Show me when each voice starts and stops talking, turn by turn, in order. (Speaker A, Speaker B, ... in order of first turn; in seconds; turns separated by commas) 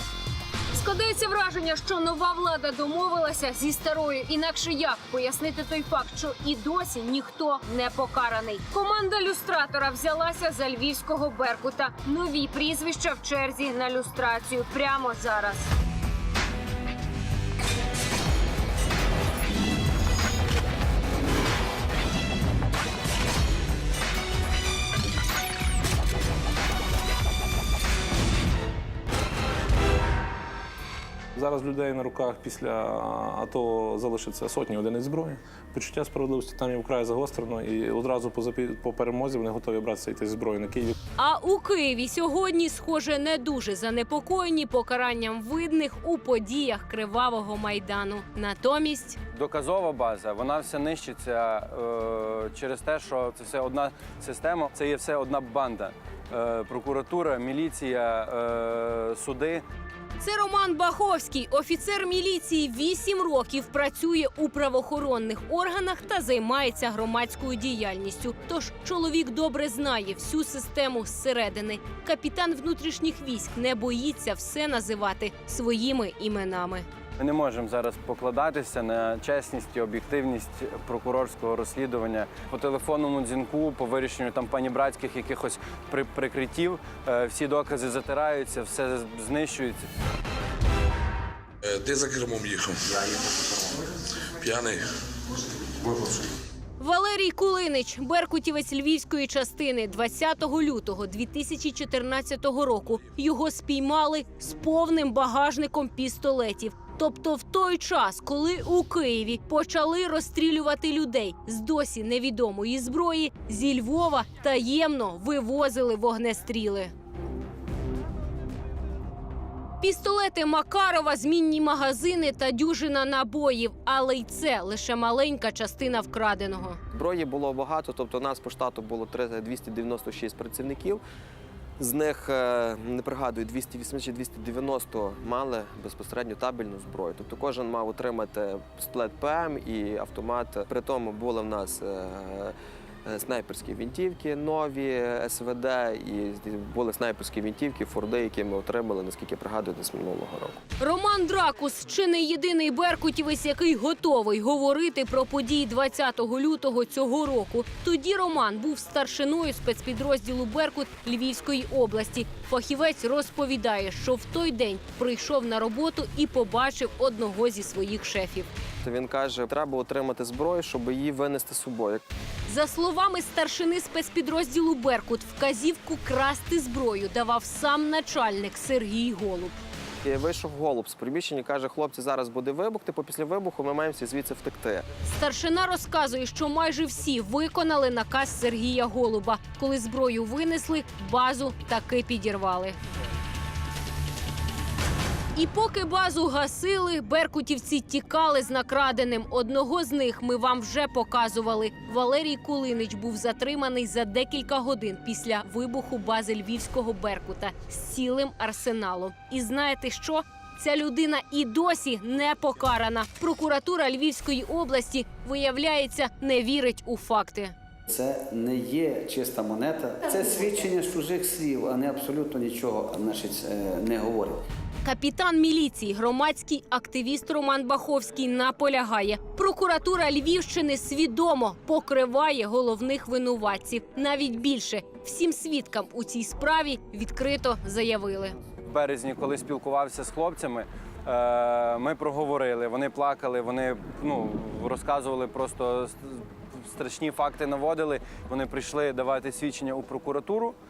Speaker A: 0.8-15.6, Speaker B: 31.4-41.0, Speaker A: 41.2-49.2, Speaker C: 49.3-59.6, Speaker A: 60.2-76.9, Speaker C: 77.2-89.9, Speaker D: 91.7-93.2, Speaker D: 94.4-94.8, Speaker D: 95.8-96.2, Speaker A: 96.8-116.9, Speaker A: 119.8-126.8, Speaker E: 126.9-131.0, Speaker E: 131.8-142.5, Speaker E: 143.1-150.6, Speaker A: 150.8-168.5, Speaker E: 168.8-172.0, Speaker A: 172.5-179.6, Speaker E: 180.0-184.8, Speaker A: 185.1-192.8, Speaker A: 195.3-217.5, Speaker F: 217.9-224.4, Speaker A: 224.8-238.4, Speaker C: 238.7-250.6